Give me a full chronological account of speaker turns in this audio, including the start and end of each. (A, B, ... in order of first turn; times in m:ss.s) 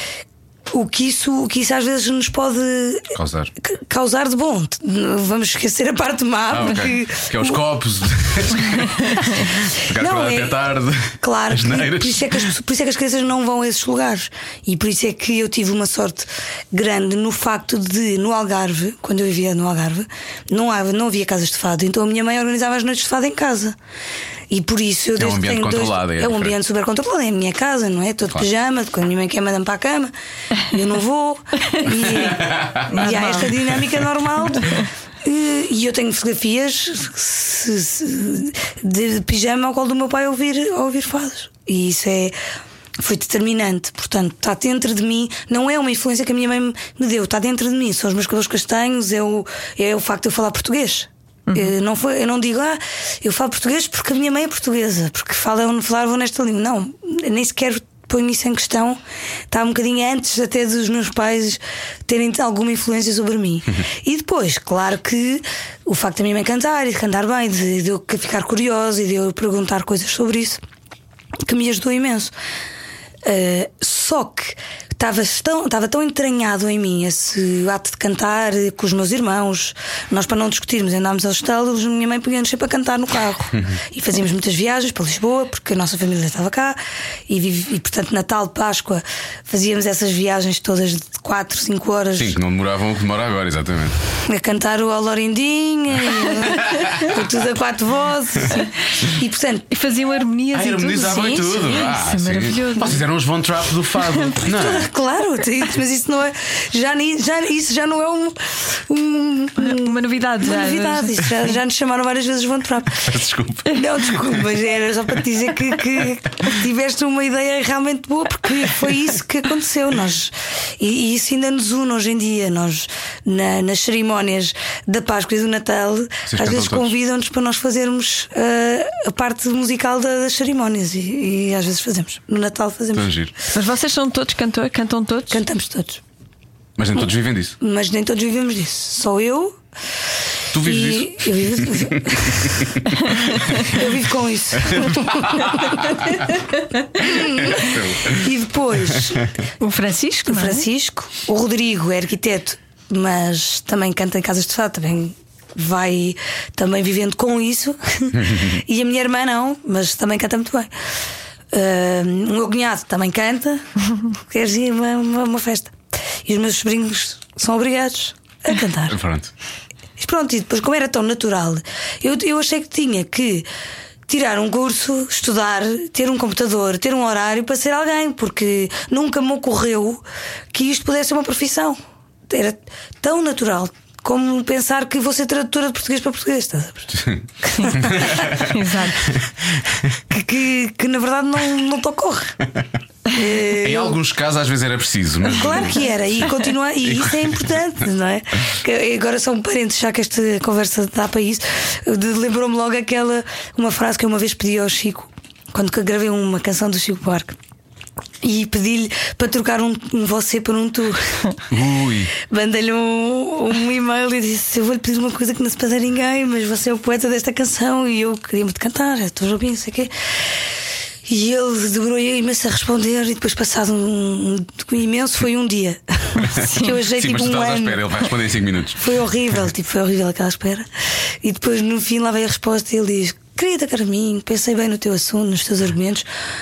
0:00.7-0:07.6 A
0:03.1-0:03.5 B
0:06.5-0:12.5 B
0:09.9-0:10.6 A
0:11.2-0:23.8 A
0:24.5-0:42.4 A
0:25.2-0:26.6 B
0:32.1-0:33.7 B
0:33.0-0:33.5 C
0:43.0-0:59.0 A
0:51.5-0:51.7 C
0:59.5-1:10.6 A
1:11.4-1:12.3 A
1:13.2-1:32.4 A
1:32.2-1:34.0 B
1:34.2-1:39.7 A
1:39.7-1:43.0 C
1:40.5-1:44.9 B
1:44.0-1:44.4 C
1:44.5-1:53.1 A
1:49.6-1:51.2 C
1:53.0-1:54.4 B
1:53.7-2:13.1 A
2:06.2-2:06.9 B
2:12.9-2:13.3 B
2:13.5-2:15.4 C
2:15.3-2:16.0 A
2:16.8-2:17.6 B
2:17.6-2:19.6 A
2:20.5-2:23.6 B
2:20.6-2:25.4 A
2:24.7-2:25.7 B
2:27.0-2:29.3 A
2:27.0-2:28.3 B
2:29.6-2:30.6 C
2:30.3-2:40.7 A
2:38.2-2:38.4 B
2:41.5-2:49.0 A
2:48.9-2:49.3 B
2:50.0-2:53.5 A
2:54.1-3:08.3 A
3:06.9-3:10.0 B
3:07.5-3:09.1 C
3:10.1-3:12.4 A
3:13.1-3:14.0 A
3:13.5-3:16.3 B
3:15.3-3:27.4 A
3:16.8-3:17.6 B
3:28.2-3:31.3 A
3:31.5-3:32.1 B
3:32.2-3:39.9 A
3:41.0-3:47.9 A
3:46.6-3:49.0 B
3:48.8-3:50.7 A
3:51.2-3:56.1 A